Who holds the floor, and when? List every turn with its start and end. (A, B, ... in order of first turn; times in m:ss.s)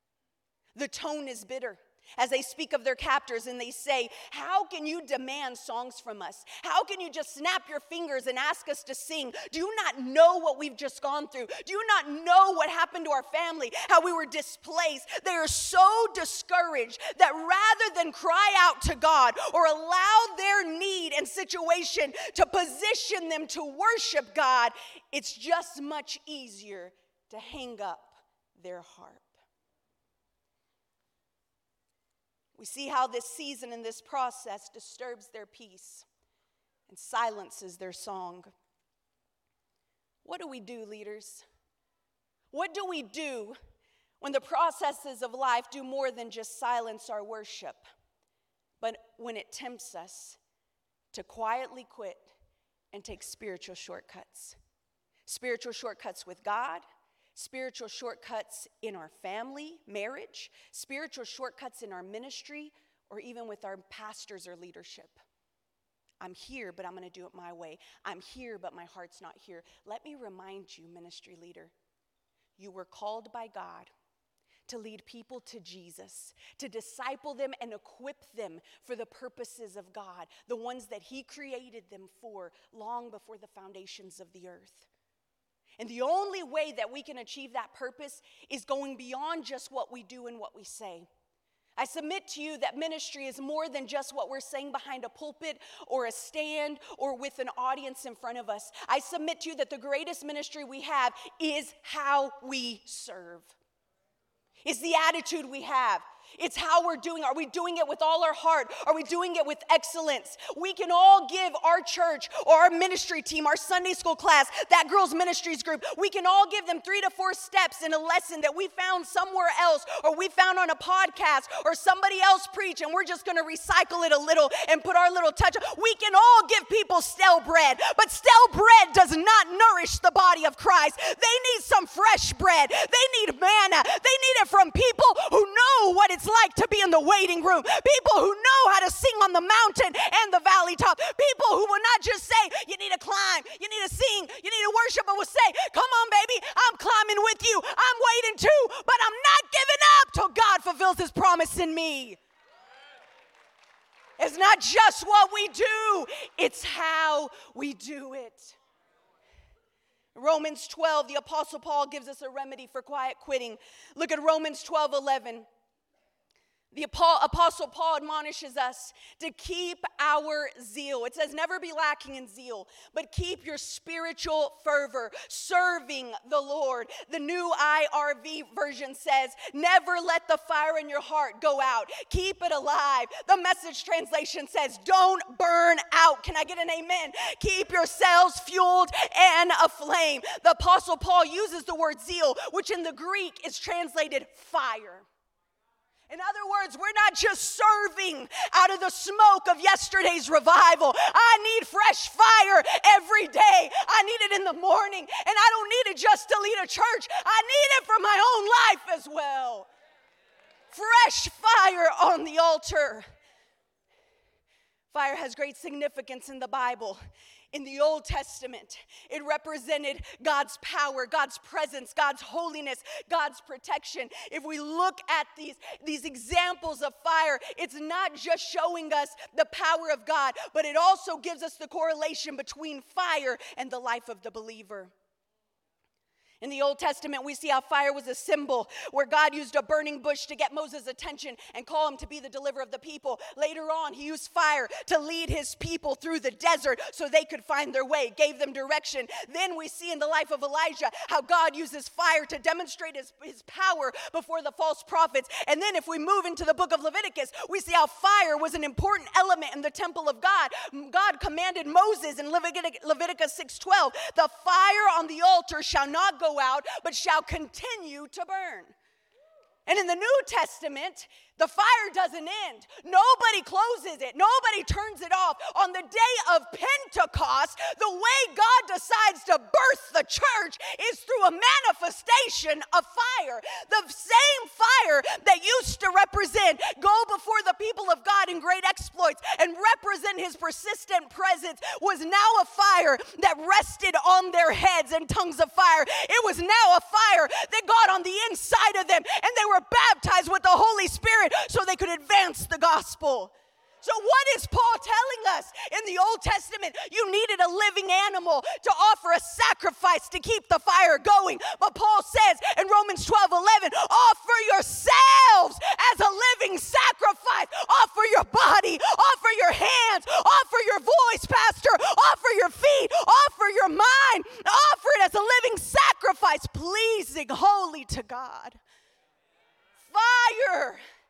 0:00.7-0:29.3 A
0:32.6-0:36.1 A
0:36.9-0:38.5 A
0:40.2-0:41.4 A
0:42.5-0:43.6 A
0:44.2-0:47.9 A
0:48.8-0:50.4 A
0:51.1-0:52.3 A
0:52.9-0:54.6 A
0:55.2-1:05.2 A
1:06.2-1:11.7 A
1:12.6-1:13.9 A
1:14.7-1:24.9 A
1:25.8-1:31.1 A
1:31.8-1:43.6 A
1:44.6-2:32.2 A
2:34.2-2:38.6 A
2:40.1-2:45.4 A
2:46.7-3:15.1 A
3:16.1-3:29.7 A
3:30.7-3:33.0 A
3:34.9-3:37.0 A
3:37.5-3:54.9 A
3:56.4-4:28.7 A
4:29.6-5:28.6 A
5:29.8-5:30.8 A